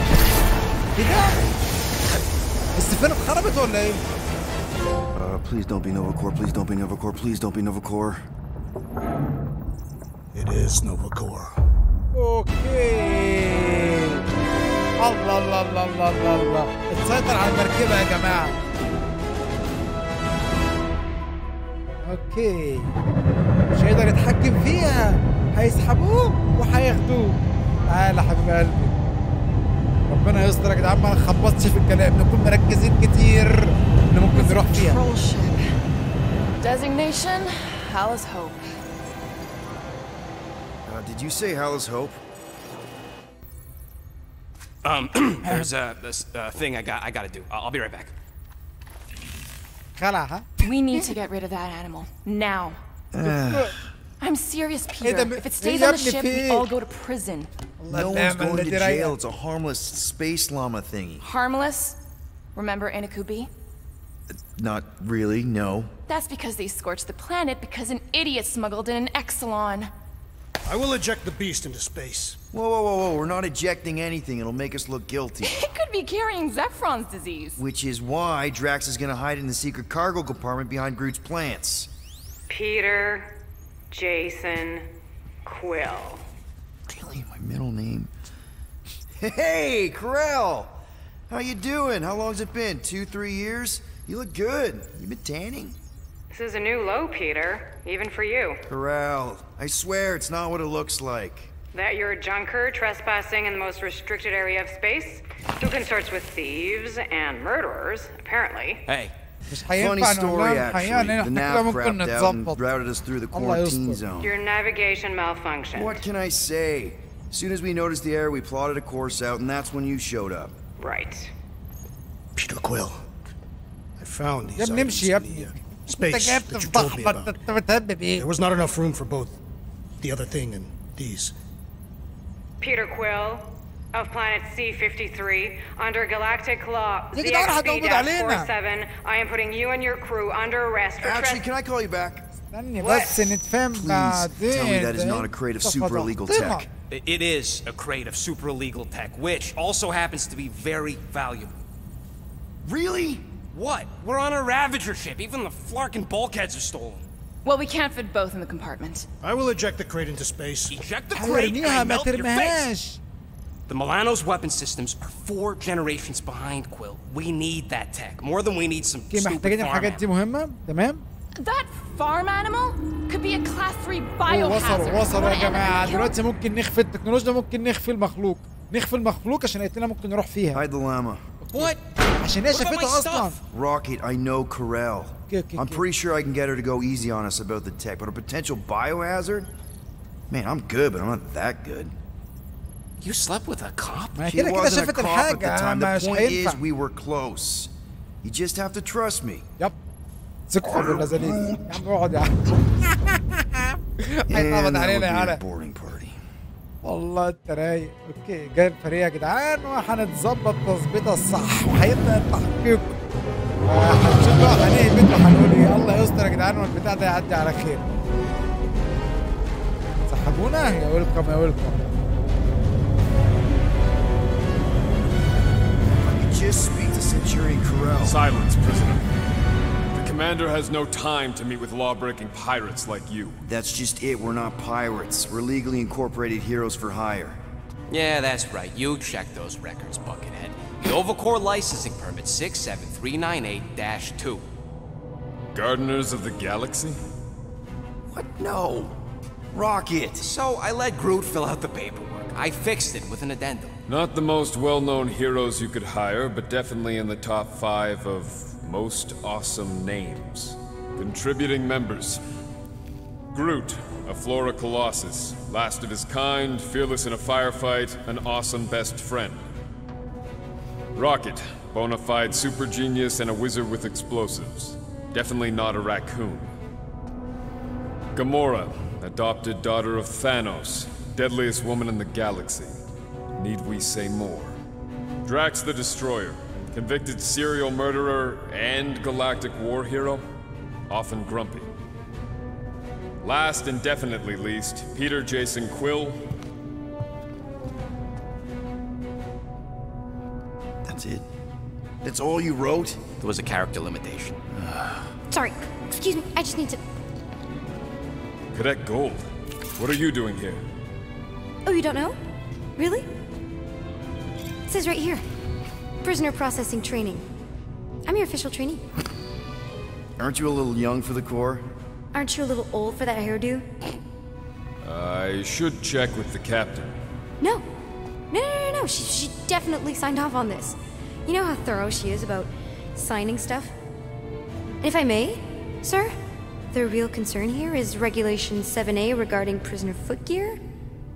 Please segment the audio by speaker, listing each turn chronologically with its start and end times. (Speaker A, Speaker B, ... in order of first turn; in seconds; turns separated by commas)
Speaker A: 0.9-1.5, Speaker A: 2.7-4.0, Speaker B: 5.1-8.2, Speaker C: 10.3-11.5, Speaker A: 12.1-14.2, Speaker A: 15.0-18.6, Speaker A: 22.0-22.9, Speaker A: 23.7-29.0, Speaker A: 30.1-35.0, Speaker D: 34.3-35.8, Speaker D: 36.6-38.6, Speaker B: 40.9-42.2, Speaker E: 44.8-48.1, Speaker A: 45.4-45.7, Speaker A: 50.0-51.1, Speaker D: 50.6-52.8, Speaker B: 53.1-53.9, Speaker A: 53.2-53.8, Speaker D: 54.2-57.5, Speaker A: 55.0-56.7, Speaker A: 57.8-59.1, Speaker B: 57.9-61.2, Speaker D: 61.2-62.0, Speaker D: 62.5-63.5, Speaker B: 64.3-65.9, Speaker D: 66.1-69.9, Speaker C: 70.6-72.4, Speaker B: 72.5-75.6, Speaker D: 75.4-77.6, Speaker B: 77.6-81.9, Speaker F: 82.5-83.3, Speaker F: 83.9-84.9, Speaker F: 85.4-86.2, Speaker B: 86.9-88.1, Speaker B: 89.2-90.8, Speaker B: 91.3-95.8, Speaker F: 96.3-98.6, Speaker B: 98.7-101.5, Speaker F: 101.7-108.8, Speaker E: 108.8-109.1, Speaker A: 109.5-112.6, Speaker B: 109.7-114.3, Speaker A: 113.3-114.0, Speaker F: 114.2-116.0, Speaker B: 115.7-120.6, Speaker F: 120.8-121.3, Speaker C: 122.3-123.0, Speaker C: 124.0-127.3, Speaker A: 124.5-128.2, Speaker C: 128.2-129.4, Speaker C: 130.0-131.3, Speaker F: 132.6-141.4, Speaker A: 137.1-138.5, Speaker B: 141.0-142.3, Speaker A: 142.5-146.7, Speaker B: 142.8-143.2, Speaker B: 143.7-146.7, Speaker E: 146.9-151.5, Speaker B: 152.6-153.3, Speaker E: 153.5-157.1, Speaker D: 157.4-159.1, Speaker C: 159.2-160.8, Speaker E: 160.7-162.7, Speaker A: 161.1-163.0, Speaker E: 163.7-170.0, Speaker A: 169.1-171.0, Speaker D: 171.4-176.2, Speaker A: 174.3-180.6, Speaker B: 180.5-181.2, Speaker E: 181.5-181.8, Speaker A: 181.5-183.4, Speaker E: 182.4-183.4, Speaker B: 183.5-189.5, Speaker A: 185.3-185.8, Speaker B: 190.3-191.9, Speaker E: 193.0-194.2, Speaker A: 194.2-196.6, Speaker B: 194.2-197.7, Speaker B: 198.2-199.4, Speaker A: 200.5-205.4, Speaker B: 200.7-201.6, Speaker B: 204.3-206.2, Speaker A: 206.8-212.9, Speaker A: 213.6-217.8, Speaker A: 220.1-222.0, Speaker B: 226.0-228.2, Speaker G: 228.0-229.1, Speaker G: 229.9-233.4, Speaker B: 233.4-237.4, Speaker E: 237.9-244.4, Speaker G: 245.5-247.0, Speaker B: 248.1-249.0, Speaker B: 249.5-250.3, Speaker E: 250.2-253.8, Speaker G: 253.9-262.2, Speaker G: 263.3-269.4, Speaker G: 270.9-276.5, Speaker G: 278.1-282.8, Speaker G: 283.4-284.6, Speaker G: 285.2-290.2, Speaker G: 290.9-291.7, Speaker G: 293.2-296.2, Speaker B: 300.8-301.2, Speaker B: 302.0-303.0, Speaker E: 303.2-304.4, Speaker B: 304.5-305.1, Speaker H: 305.3-306.8, Speaker G: 308.5-310.6, Speaker H: 311.6-312.2, Speaker H: 312.8-313.1, Speaker H: 314.7-315.2, Speaker H: 316.0-317.2, Speaker H: 318.1-318.8, Speaker B: 320.2-321.6, Speaker H: 322.1-323.7, Speaker G: 324.8-326.9, Speaker H: 327.4-327.6, Speaker H: 328.3-333.7, Speaker H: 334.8-336.1, Speaker H: 336.7-340.6